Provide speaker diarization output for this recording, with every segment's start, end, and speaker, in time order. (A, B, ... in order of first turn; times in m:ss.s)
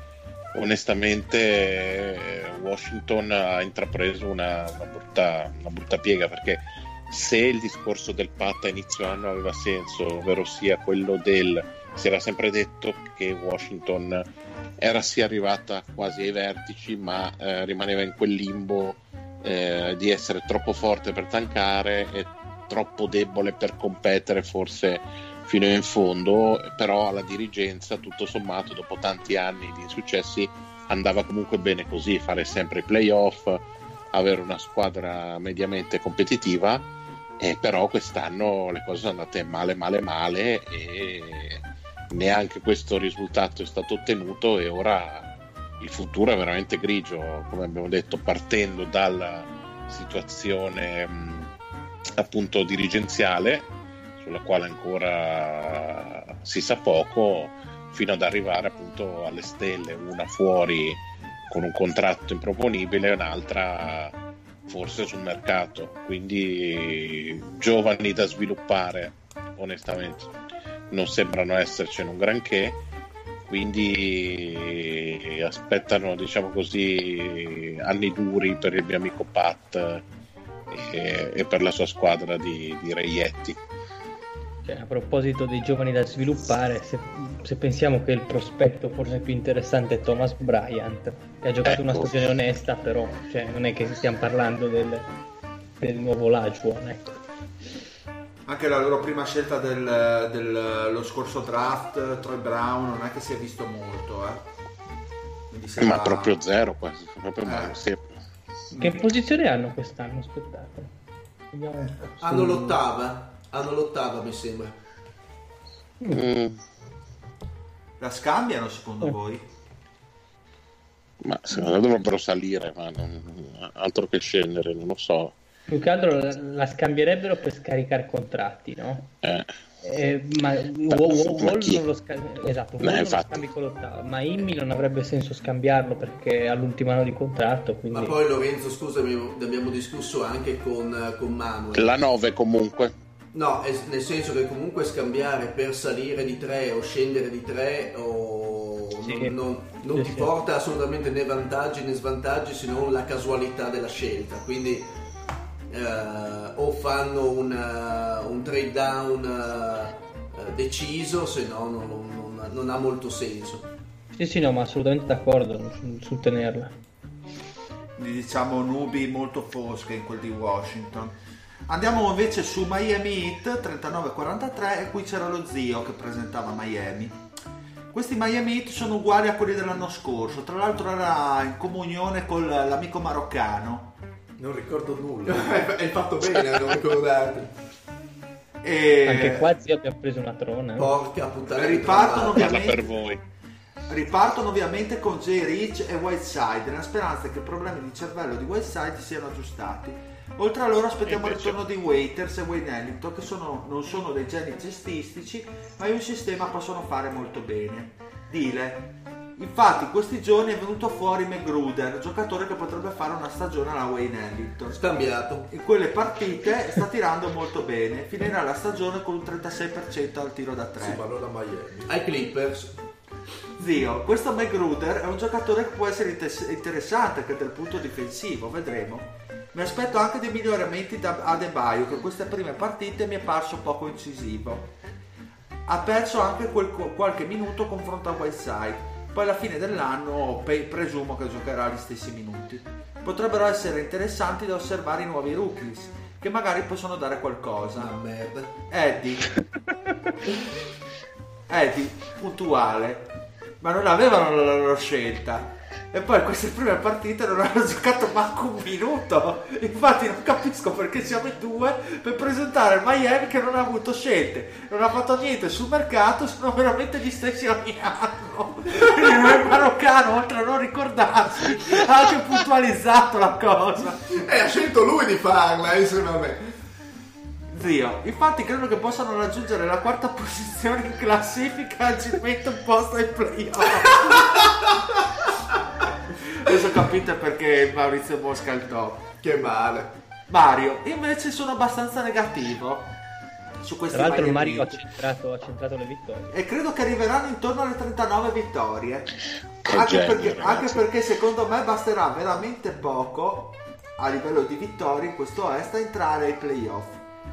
0:00.5-0:14.3 A
0:14.8-0:36.9 A
0:37.4-0:51.5 A
0:52.2-0:53.7 A
0:54.2-1:04.2 A
1:04.7-1:10.3 A
1:10.9-1:12.8 A
1:13.5-1:20.0 A
1:20.7-1:23.6 A
1:24.6-1:35.1 B
1:31.6-1:32.1 A
1:35.8-1:37.2 B
1:38.4-1:44.5 C
1:45.5-1:46.4 C
1:45.8-1:48.0 A
1:47.4-1:47.8 C
1:48.7-1:50.9 B
1:51.5-1:52.8 B
1:52.2-1:54.8 D
1:56.1-1:56.6 A
1:58.0-1:59.4 C
2:01.2-2:05.4 A
2:05.7-2:09.1 B
2:09.2-2:09.5 A
2:09.8-2:18.2 B
2:10.9-2:11.8 A
2:12.8-2:13.4 A
2:17.9-2:21.9 D
2:21.7-2:22.9 A
2:23.3-2:34.9 D
2:29.0-2:29.4 B
2:29.9-2:30.3 B
2:35.7-2:43.7 D
2:44.1-2:46.7 B
2:48.0-2:51.2 C
2:51.7-2:57.2 C
2:57.9-3:04.0 C
3:04.4-3:05.7 E
3:05.2-3:07.5 D
3:08.6-3:09.5 C
3:09.0-3:10.9 B
3:10.8-3:12.6 D
3:11.5-3:12.9 C
3:12.2-3:13.2 A
3:13.9-3:34.8 C
3:21.1-3:21.4 A
3:34.7-3:35.5 D
3:35.4-3:41.0 C
3:40.8-3:42.0 E
3:41.9-3:42.8 D
3:43.6-3:54.7 C
3:55.6-4:08.0 C
4:07.8-4:08.5 D
4:08.7-4:09.3 C
4:11.5-4:13.1 C
4:13.6-4:34.2 C
4:34.1-4:36.5 D
4:37.5-4:44.5 C
4:46.3-4:49.1 C
4:49.2-4:50.0 D
4:50.3-4:53.0 C
4:53.6-4:54.8 C
4:53.9-4:56.3 B
4:56.3-4:59.1 C
4:59.6-5:00.8 A
4:59.6-5:07.0 C